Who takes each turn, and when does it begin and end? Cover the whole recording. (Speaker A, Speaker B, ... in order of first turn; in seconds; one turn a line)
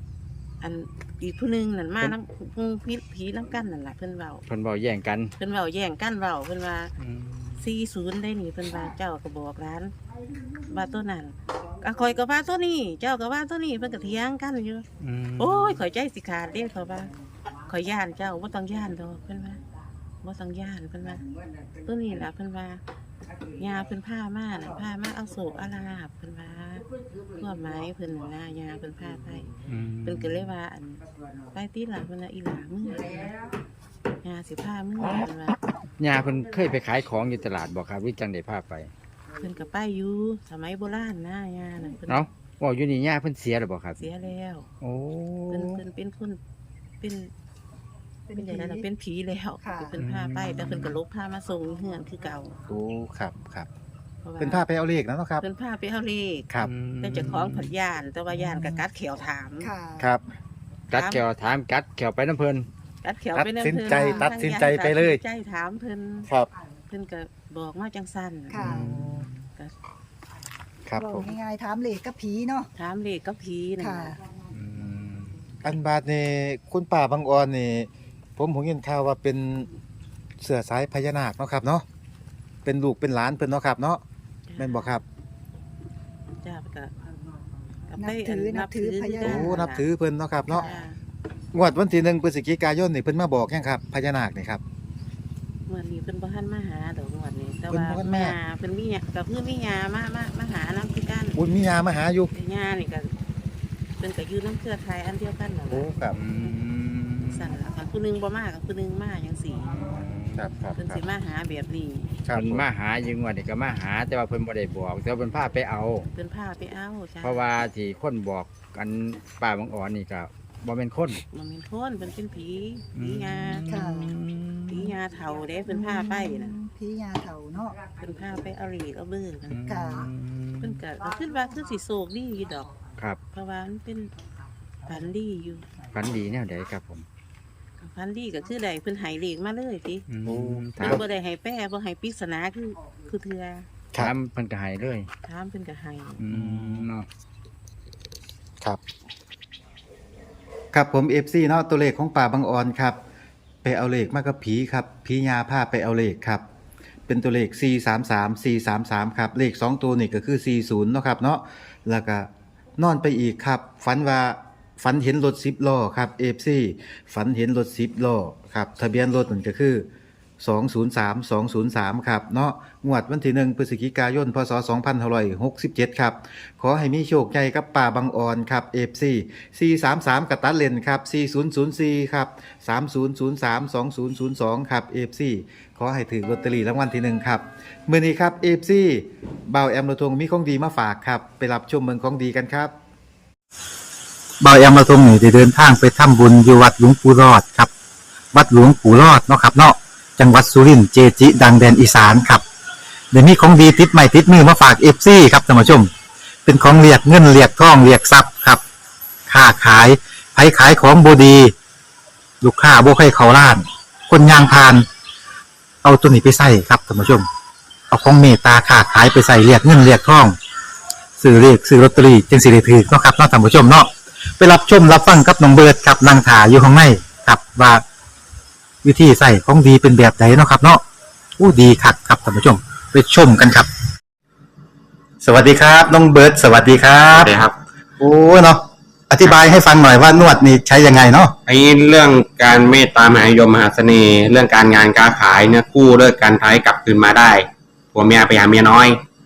Speaker A: 0.6-4.4
Speaker B: 4.5-5.3
Speaker A: 5.4-6.9
Speaker B: 7.0-7.7
Speaker A: 7.6-9.9
Speaker A: 10.7-14.8
Speaker B: 15.0-15.8
Speaker A: 15.4-17.1
Speaker A: 17.7-19.6
Speaker A: 20.2-21.2
Speaker A: 21.8-22.8
Speaker A: 23.6-26.9
Speaker A: 27.4-29.5
Speaker B: 29.7-30.5
Speaker A: 30.0-33.3
Speaker A: 34.2-35.6
Speaker B: 36.0-38.9
Speaker A: 39.4-42.2
Speaker B: 42.0-44.0
Speaker A: 44.0-44.7
Speaker B: 44.8-45.8
Speaker A: 45.5-46.4
Speaker A: 47.0-47.3
Speaker C: 48.3-48.9
Speaker A: 48.4-52.6
Speaker C: 49.6-50.0
Speaker B: 50.0-51.0
Speaker D: 52.7-53.7
Speaker A: 54.2-54.6
Speaker D: 54.4-55.4
Speaker A: 55.4-56.5
Speaker B: 56.6-57.7
Speaker A: 57.0-59.7
Speaker C: 59.6-60.1
Speaker D: 60.0-60.2
Speaker B: 60.9-62.7
Speaker A: 60.9-61.2
Speaker A: 63.0-66.3
Speaker D: 63.3-65.2
Speaker C: 63.8-64.3
Speaker A: 66.9-68.6
Speaker C: 68.5-68.9
Speaker B: 68.6-69.4
Speaker D: 70.8-71.3
Speaker C: 71.0-72.7
Speaker A: 72.7-74.1
Speaker C: 73.8-74.2
Speaker B: 74.5-75.5
Speaker D: 75.6-79.7
Speaker D: 80.4-81.8
Speaker D: 82.6-84.0
Speaker A: 84.5-85.0
Speaker D: 84.6-85.0
Speaker A: 86.4-86.9
Speaker A: 87.9-89.9
Speaker C: 88.0-89.6
Speaker D: 89.2-90.6
Speaker C: 90.5-90.8
Speaker A: 90.5-91.0
Speaker D: 91.5-94.6
Speaker A: 95.7-101.4
Speaker D: 97.7-98.3
Speaker D: 101.3-102.3
Speaker A: 102.3-103.1
Speaker A: 104.0-105.9
Speaker D: 105.7-106.2
Speaker B: 106.1-107.6
Speaker A: 107.3-109.8
Speaker B: 109.7-110.6
Speaker D: 110.3-111.0
Speaker A: 110.8-112.2
Speaker D: 112.2-112.6
Speaker B: 112.3-116.1
Speaker A: 116.1-117.5
Speaker B: 117.2-121.2
Speaker A: 121.3-123.6
Speaker B: 122.9-125.0
Speaker C: 123.7-124.1
Speaker A: 124.7-126.5
Speaker C: 125.7-127.8
Speaker A: 128.0-129.6
Speaker B: 129.5-130.8
Speaker C: 129.6-130.1
Speaker A: 130.6-132.8
Speaker A: 133.3-134.1
Speaker A: 134.8-135.6
Speaker B: 135.9-137.1
Speaker A: 137.8-140.0
Speaker B: 140.1-141.0
Speaker D: 140.3-141.0
Speaker A: 140.8-143.7
Speaker B: 144.0-145.1
Speaker A: 145.2-146.2
Speaker B: 146.2-147.1
Speaker D: 146.3-146.8
Speaker D: 150.7-153.0
Speaker D: 153.6-156.4
Speaker D: 157.1-169.8
Speaker D: 170.4-192.7
Speaker D: 194.4-197.7
Speaker D: 198.3-202.4
Speaker D: 203.1-205.9
Speaker D: 206.4-208.6
Speaker D: 209.3-211.5
Speaker D: 212.4-214.8
Speaker D: 215.8-217.3
Speaker D: 217.9-220.3
Speaker D: 221.2-227.8
Speaker D: 228.8-230.8
Speaker D: 231.4-233.7
Speaker D: 235.2-237.3
Speaker E: 237.1-237.5
Speaker D: 238.0-241.3
Speaker E: 241.4-249.0